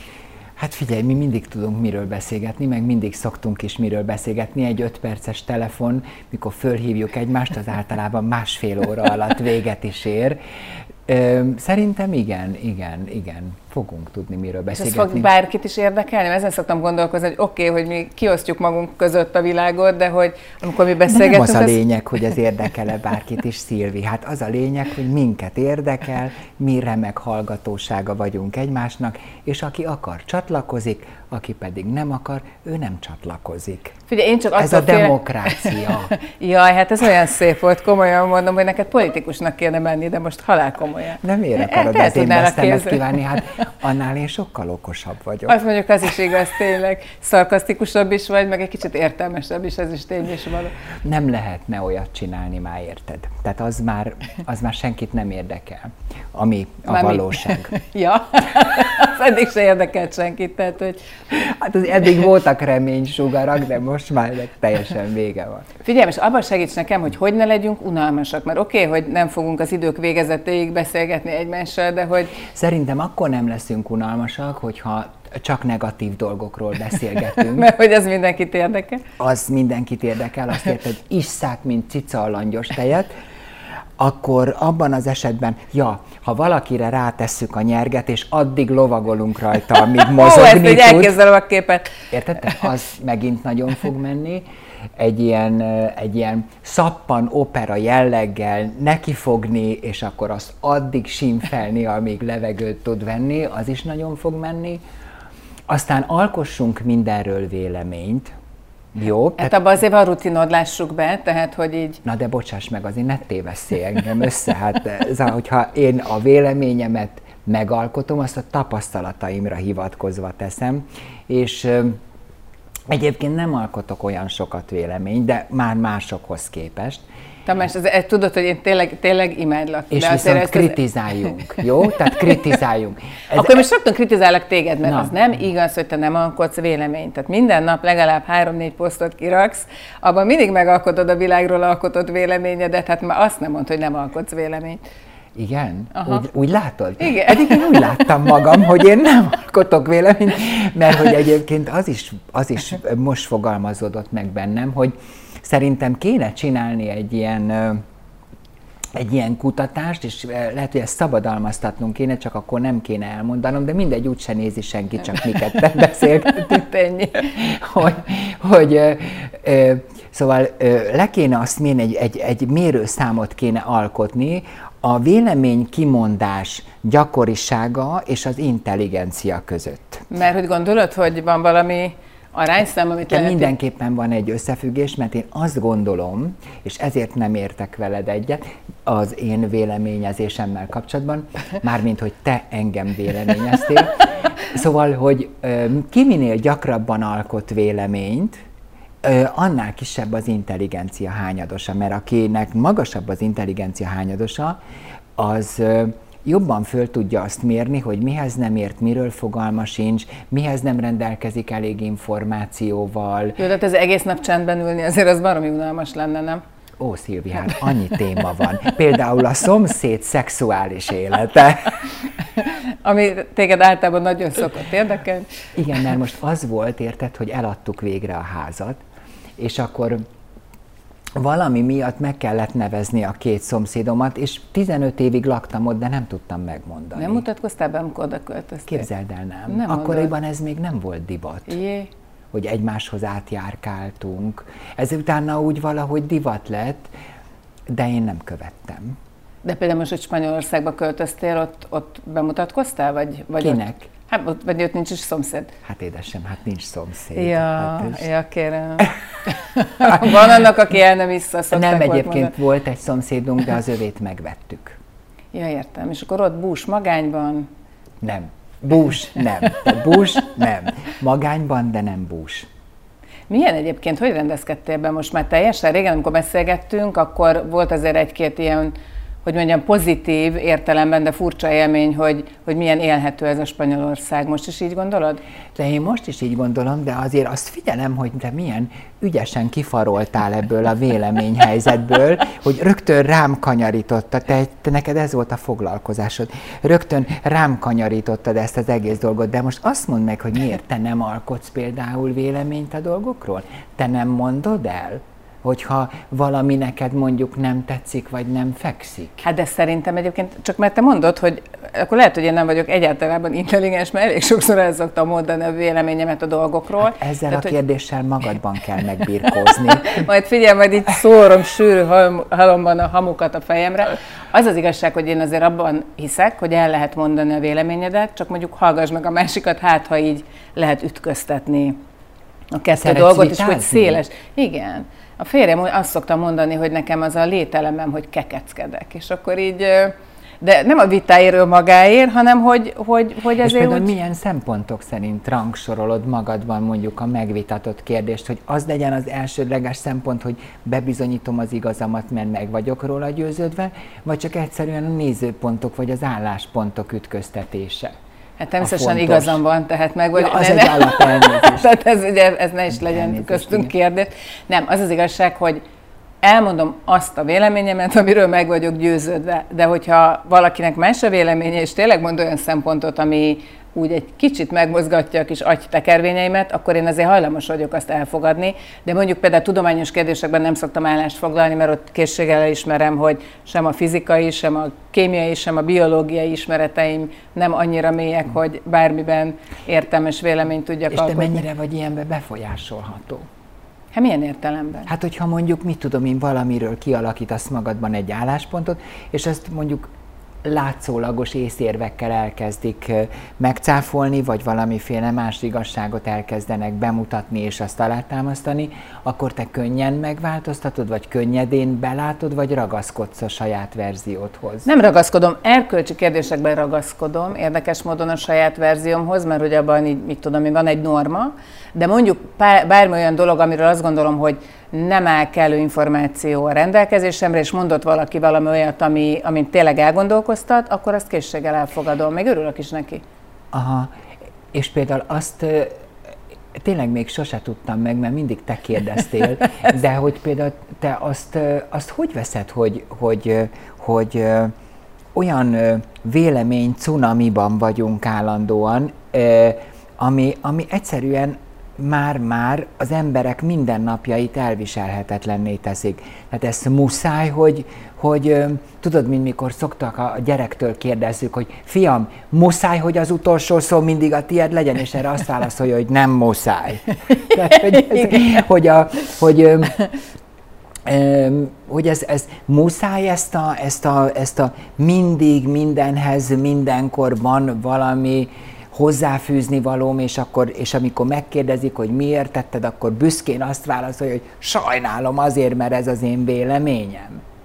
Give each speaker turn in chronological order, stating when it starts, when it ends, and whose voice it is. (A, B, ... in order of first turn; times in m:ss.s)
0:00.6-0:10.4 A
0:11.1-0:15.3 A
0:14.7-0:21.8 B
0:21.1-0:34.0 A
0:34.1-0:43.2 B
0:34.6-0:36.1 A
0:41.2-0:45.6 A
0:45.5-0:50.7 B
0:51.0-0:57.7 A
0:56.9-1:01.0 B
1:01.3-1:05.7 A
1:05.8-1:12.4 B
1:12.4-1:17.7 A
1:17.4-1:19.0 B
1:19.2-1:23.1 A
1:24.0-1:31.1 A
1:30.0-1:31.9 B
1:32.1-1:34.5 A
1:35.0-1:44.8 A
1:45.7-1:48.3 A
1:48.9-1:49.6 A
1:49.4-1:52.0 B
1:52.0-2:02.0 A
2:02.9-2:07.0 A
2:07.5-2:10.8 B
2:09.9-2:13.6 A
2:13.3-2:24.8 B
2:14.8-2:15.1 A
2:25.4-2:37.8 A
2:26.0-2:26.2 B
2:27.0-2:28.1 B
2:38.9-3:00.1 A
3:00.1-3:03.5 B
3:03.1-3:18.4 A
3:19.0-3:24.6 A
3:25.2-3:33.4 A
3:33.4-3:36.4 B
3:36.8-3:42.0 A
3:42.4-3:45.3 B
3:45.6-3:48.8 A
3:49.4-3:50.0 A
3:51.2-3:57.2 A
3:57.0-3:58.9 B
3:58.7-4:01.6 A
3:59.5-4:00.1 B
4:01.5-4:01.9 B
4:02.3-4:06.9 A
4:07.7-4:09.0 A
4:09.4-4:15.5 B
4:13.4-4:13.9 A
4:15.6-4:18.0 A
4:17.2-4:22.3 B
4:21.5-4:24.8 A
4:25.3-4:27.5 B
4:28.0-4:32.5 A
4:33.3-4:45.2 B
4:45.6-5:09.2 A
5:09.2-5:17.6 B
5:16.8-5:20.0 A
5:19.8-5:31.8 B
5:32.5-5:43.9 B
5:32.8-5:34.0 A
5:43.4-5:57.9 A
5:58.4-6:05.6 B
5:58.6-5:59.4 A
6:00.1-6:01.7 A
6:02.7-6:03.7 A
6:06.2-6:31.4 B
6:30.9-6:33.3 A
6:33.9-6:34.9 B
6:34.9-6:39.9 A
6:40.4-6:54.7 A
6:54.6-7:13.0 B
7:13.5-7:13.9 A
7:14.5-7:15.7 A
7:16.5-7:24.5 A
7:25.1-7:49.8 A
7:50.9-8:07.2 A